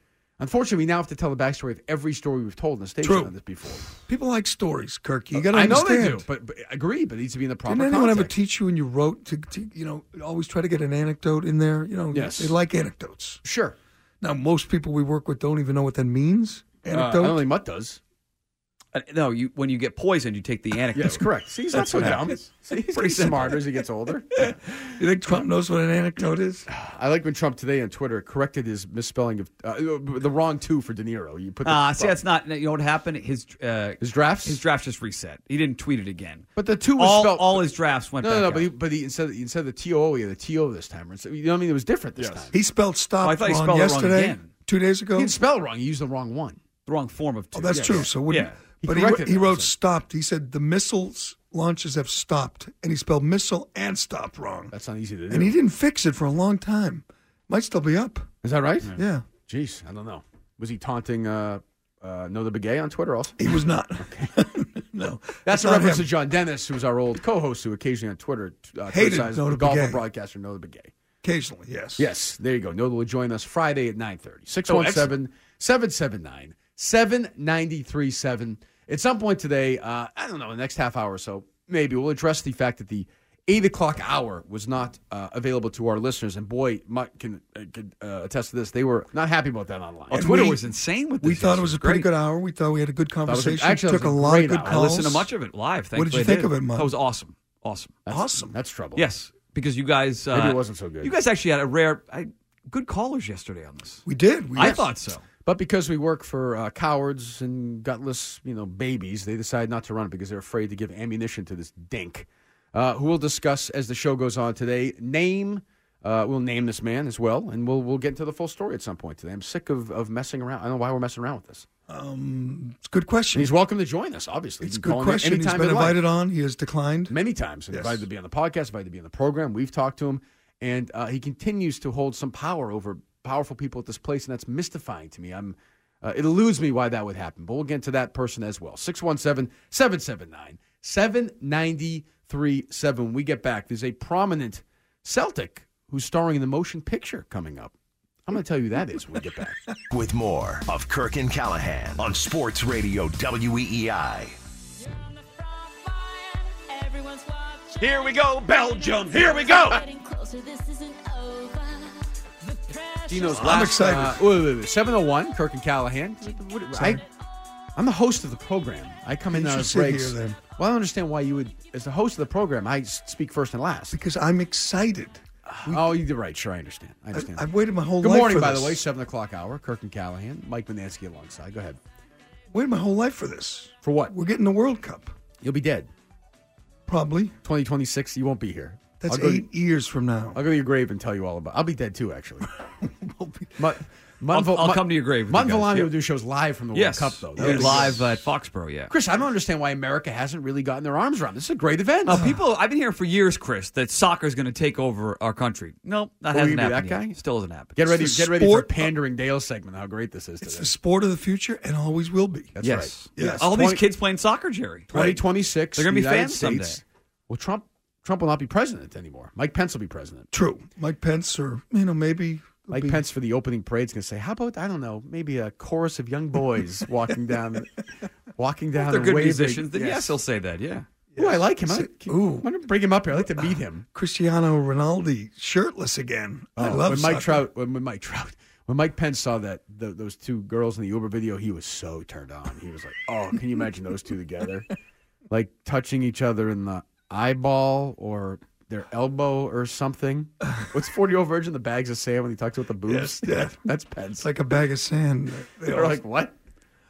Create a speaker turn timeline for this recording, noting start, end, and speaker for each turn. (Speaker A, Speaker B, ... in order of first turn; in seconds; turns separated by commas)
Speaker A: 0.4-4.0, Speaker B: 3.0-3.3, Speaker B: 4.0-6.3, Speaker A: 5.3-8.3, Speaker B: 7.6-13.4, Speaker A: 12.1-12.6, Speaker A: 13.4-13.8, Speaker B: 14.2-17.4, Speaker A: 16.9-18.0, Speaker C: 18.9-23.6, Speaker A: 20.9-24.8, Speaker B: 21.9-22.2, Speaker B: 24.9-26.7, Speaker A: 26.7-32.2, Speaker C: 31.6-38.7, Speaker A: 34.0-34.6, Speaker A: 36.5-42.5, Speaker B: 42.5-45.4, Speaker C: 43.2-44.5, Speaker A: 45.1-46.6, Speaker C: 46.9-48.6, Speaker B: 47.5-54.7, Speaker A: 47.7-48.1, Speaker A: 48.8-49.7, Speaker A: 54.7-55.5, Speaker B: 55.3-58.3, Speaker A: 58.4-64.3, Speaker B: 58.9-59.3, Speaker B: 63.4-66.1, Speaker A: 65.4-70.9, Speaker B: 68.9-70.0, Speaker B: 71.2-72.1, Speaker A: 72.0-90.6, Speaker C: 74.7-75.1, Speaker B: 90.1-90.6, Speaker C: 90.1-92.1, Speaker B: 91.2-95.3, Speaker A: 93.2-94.8, Speaker C: 94.6-98.0, Speaker B: 95.9-96.9, Speaker A: 98.0-99.1, Speaker B: 98.1-98.6, Speaker C: 99.0-104.0, Speaker A: 100.3-101.1, Speaker B: 104.0-104.8, Speaker C: 104.5-105.2, Speaker A: 104.6-104.9, Speaker A: 105.4-121.7, Speaker B: 121.9-123.5, Speaker A: 123.3-126.0, Speaker B: 124.6-127.2, Speaker A: 127.1-147.7, Speaker B: 127.7-128.0, Speaker A: 148.2-149.6, Speaker D: 149.9-154.4, Speaker E: 154.8-163.7, Speaker A: 163.1-167.0, Speaker B: 163.3-164.2, Speaker E: 166.2-167.1, Speaker A: 167.8-174.0, Speaker B: 169.3-170.4, Speaker B: 173.9-176.0, Speaker A: 175.4-177.4, Speaker B: 177.1-178.8, Speaker A: 178.0-181.8, Speaker B: 182.5-185.1, Speaker A: 183.8-184.1, Speaker A: 185.4-185.9, Speaker B: 186.9-187.3, Speaker A: 187.4-189.5, Speaker B: 189.0-190.4, Speaker A: 190.3-192.5, Speaker B: 192.8-193.6, Speaker A: 193.6-198.1, Speaker C: 194.3-196.0, Speaker C: 196.7-198.9, Speaker B: 197.4-198.0, Speaker A: 198.9-202.2, Speaker C: 202.1-207.8, Speaker B: 202.1-202.4, Speaker A: 206.3-207.2, Speaker A: 207.8-210.7, Speaker B: 207.9-208.9, Speaker B: 210.4-212.5, Speaker A: 212.6-213.8, Speaker C: 212.6-215.0, Speaker B: 213.2-213.5, Speaker B: 214.9-215.2, Speaker A: 214.9-220.3, Speaker C: 215.8-216.8, Speaker B: 220.3-223.0, Speaker A: 222.7-227.8, Speaker A: 228.3-230.2, Speaker C: 228.7-230.9, Speaker B: 231.1-232.5, Speaker A: 231.2-233.8, Speaker B: 233.1-237.5, Speaker A: 236.6-244.7, Speaker A: 245.3-254.3, Speaker B: 252.8-253.6, Speaker B: 254.2-256.0, Speaker A: 255.7-256.3